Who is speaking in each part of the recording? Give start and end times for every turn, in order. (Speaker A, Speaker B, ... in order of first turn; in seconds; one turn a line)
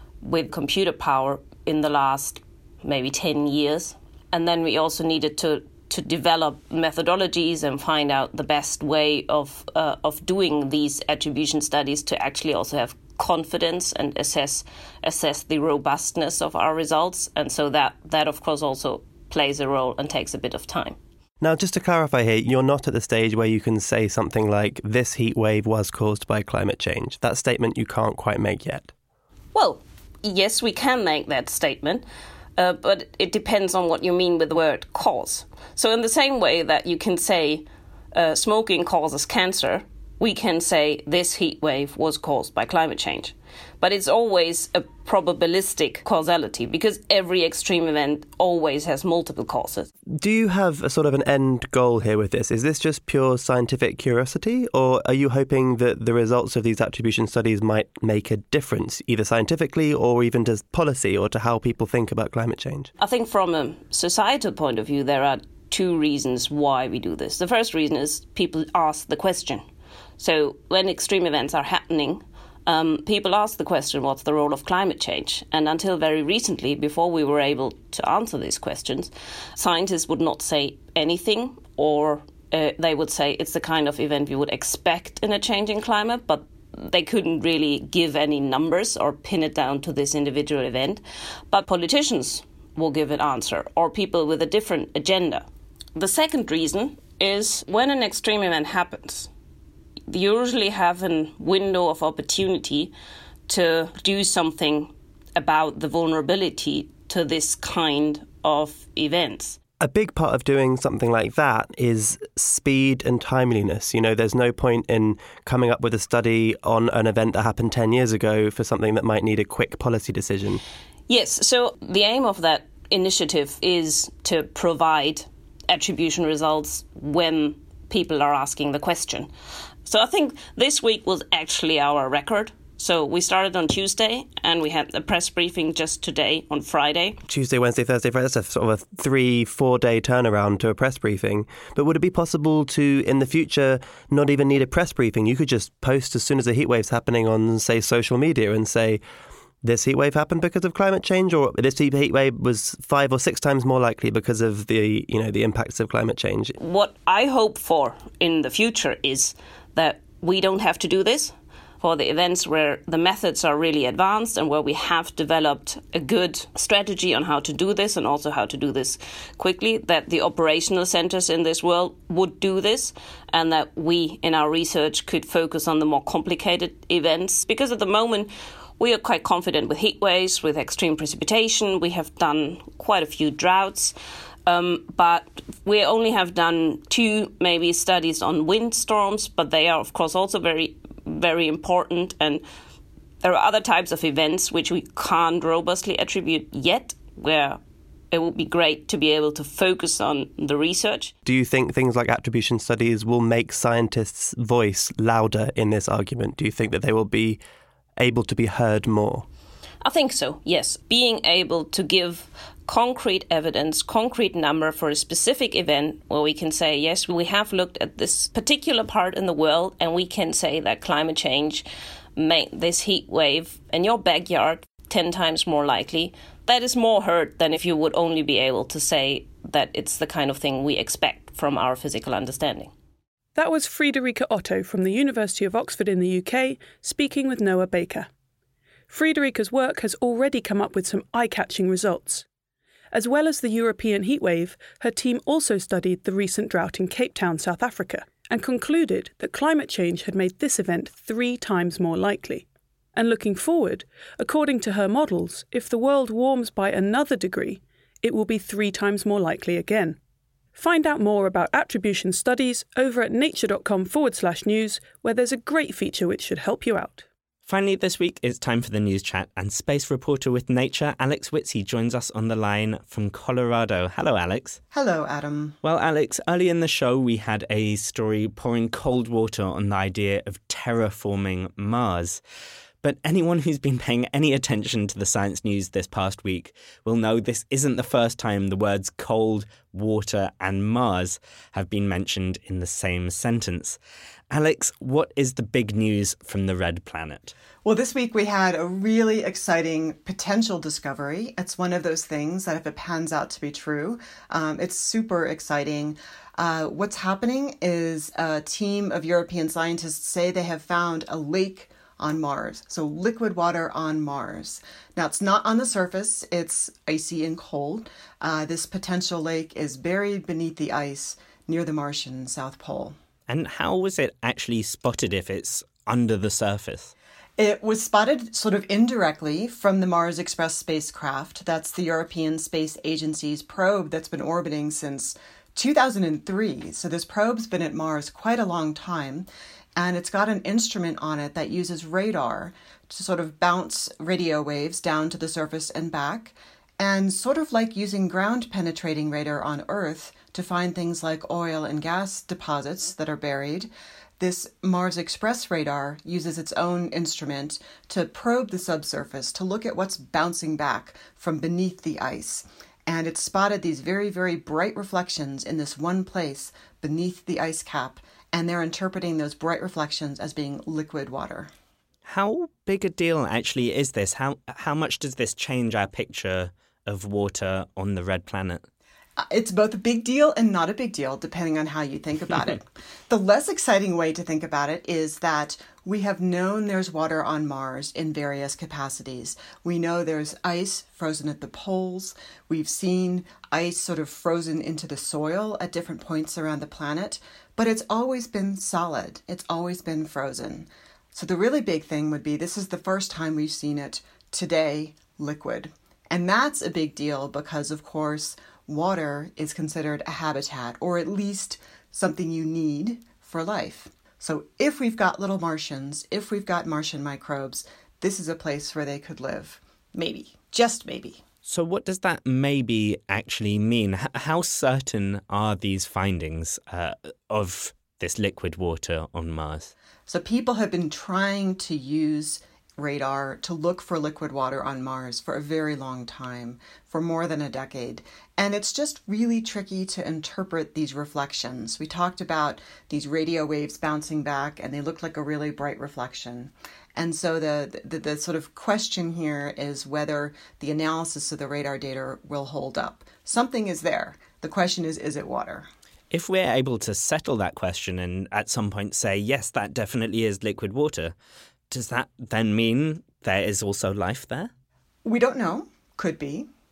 Speaker A: 0.2-21.0
Speaker B: 21.4-28.9
Speaker A: 29.5-32.0
Speaker A: 32.6-49.9
Speaker B: 50.1-62.9
Speaker A: 63.0-69.6
Speaker A: 70.2-99.3
Speaker A: 100.1-102.9
Speaker A: 103.5-109.6
Speaker B: 109.8-120.6
Speaker A: 121.1-129.3
Speaker A: 129.8-137.2
Speaker B: 137.3-149.0
Speaker B: 149.6-156.5
Speaker A: 156.6-183.9
Speaker A: 184.5-192.4
Speaker A: 193.2-197.6
Speaker A: 198.1-201.1
Speaker B: 201.2-207.4
Speaker B: 208.0-209.3
Speaker A: 209.8-221.7
Speaker A: 222.2-232.7
Speaker C: 233.3-238.1
Speaker C: 238.9-242.2
Speaker C: 242.9-260.0
Speaker C: 260.6-267.1
Speaker D: 267.5-274.6
Speaker E: 274.7-275.6
Speaker D: 275.6-282.2
Speaker D: 282.8-293.8
Speaker D: 294.3-297.3
Speaker E: 297.6-322.9
Speaker D: 323.3-326.9
Speaker E: 327.4-371.5
Speaker D: 372.1-378.6
Speaker E: 379.2-421.2
Speaker D: 421.5-429.7
Speaker E: 430.1-455.7
Speaker D: 456.1-461.1
Speaker D: 461.7-464.5
Speaker E: 465.1-466.5